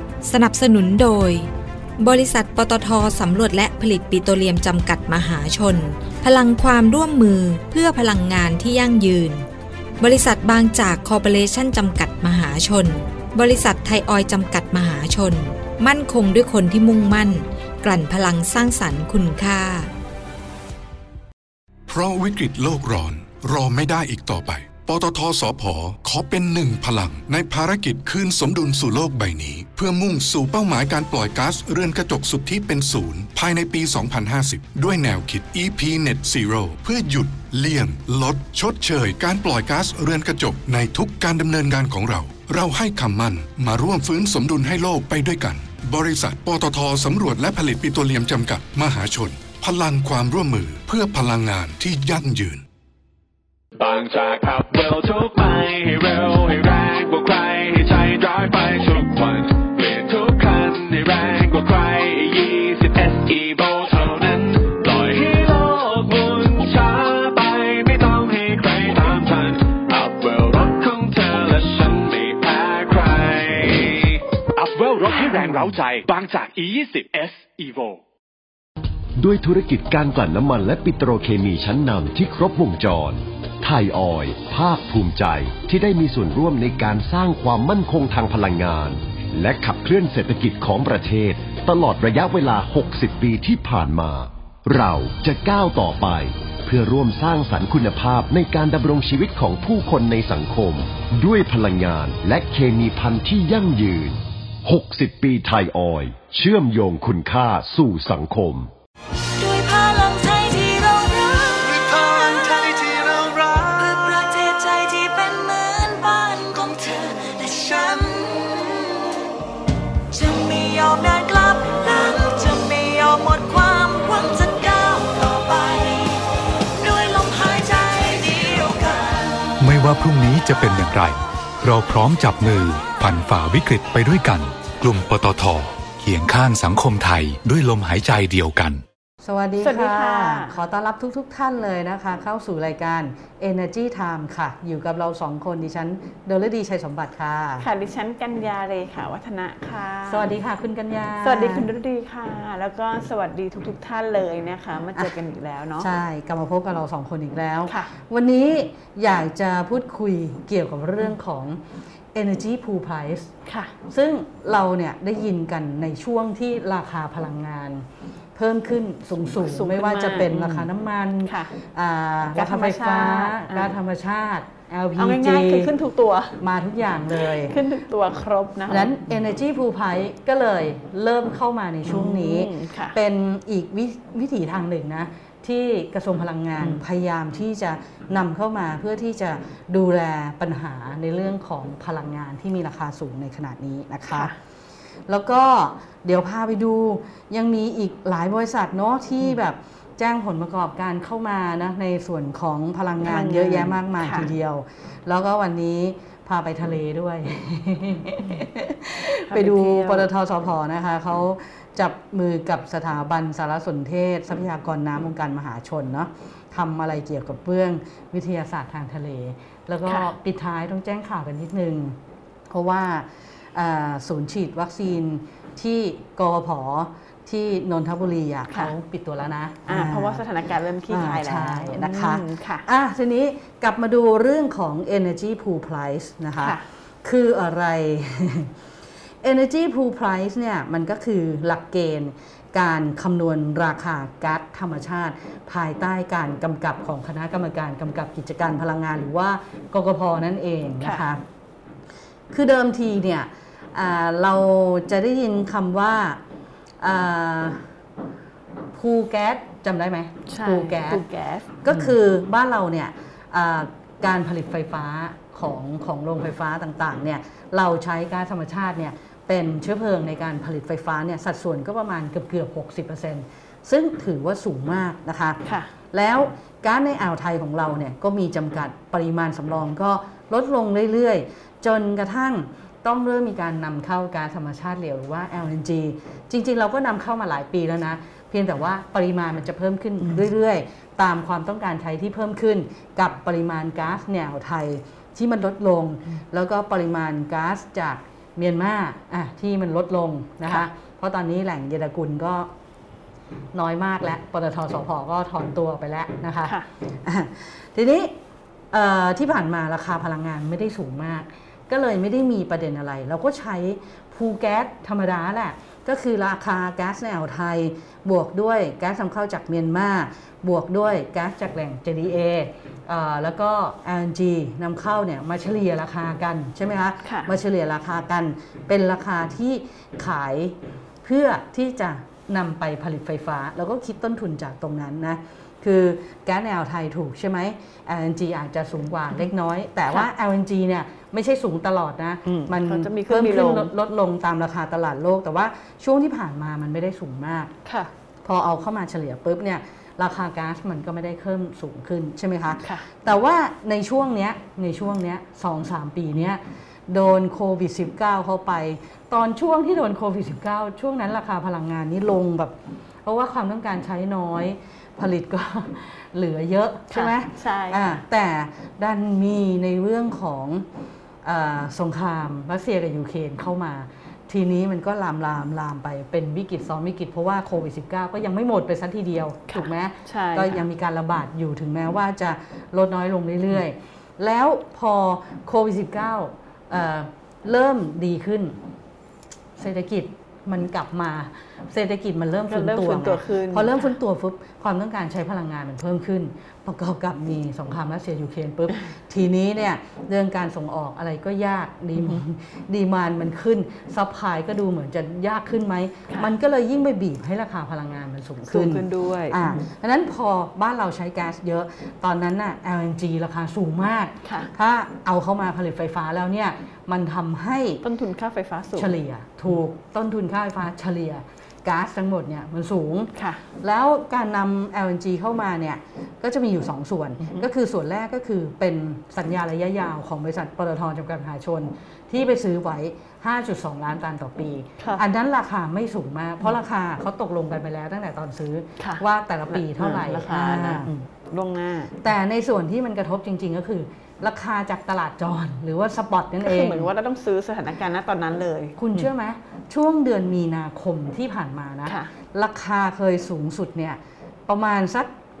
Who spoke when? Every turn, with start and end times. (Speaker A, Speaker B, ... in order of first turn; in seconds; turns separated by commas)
Speaker A: 0.2-1.5, Speaker A: 2.0-9.4, Speaker A: 10.0-19.9, Speaker B: 21.9-52.6, Speaker C: 53.8-78.0, Speaker D: 79.2-108.7, Speaker E: 109.4-119.2, Speaker E: 120.1-129.5, Speaker F: 129.6-138.8, Speaker G: 139.2-147.7, Speaker H: 139.6-140.6, Speaker H: 147.6-150.3, Speaker G: 150.1-151.7, Speaker H: 151.2-155.9, Speaker G: 155.8-161.6, Speaker H: 157.7-157.9, Speaker G: 162.1-163.3, Speaker H: 163.4-163.7, Speaker G: 163.9-175.7, Speaker H: 169.4-170.7, Speaker H: 171.2-171.5, Speaker H: 172.3-173.7, Speaker H: 175.0-176.4, Speaker G: 176.4-177.6, Speaker H: 177.2-178.9, Speaker G: 178.7-194.3, Speaker H: 181.9-183.0, Speaker H: 194.1-194.3, Speaker G: 195.1-222.0, Speaker H: 203.0-204.3, Speaker H: 209.3-210.1, Speaker G: 222.5-230.2, Speaker H: 229.7-232.6, Speaker G: 230.9-238.5, Speaker H: 236.4-236.6, Speaker G: 239.2-251.2, Speaker H: 250.8-251.1, Speaker G: 252.3-256.2, Speaker G: 256.8-257.6, Speaker G: 258.7-261.0, Speaker H: 260.3-261.6, Speaker G: 261.6-275.4, Speaker H: 275.4-275.7, Speaker G: 275.9-302.5, Speaker G: 303.5-308.1, Speaker G: 308.7-347.5, Speaker H: 327.0-327.3, Speaker H: 342.2-343.7, Speaker H: 347.6-347.9, Speaker G: 348.2-370.6, Speaker H: 366.9-367.9, Speaker G: 371.2-388.6, Speaker H: 379.5-380.6, Speaker G: 389.6-417.8, Speaker H: 392.5-393.9, Speaker H: 408.5-409.4, Speaker H: 414.2-414.5, Speaker H: 417.8-418.9, Speaker G: 418.8-440.9, Speaker H: 423.1-423.4, Speaker H: 427.2-427.4, Speaker H: 438.8-441.9, Speaker G: 442.0-446.9, Speaker H: 446.4-449.1, Speaker G: 448.8-455.1, Speaker H: 451.9-452.1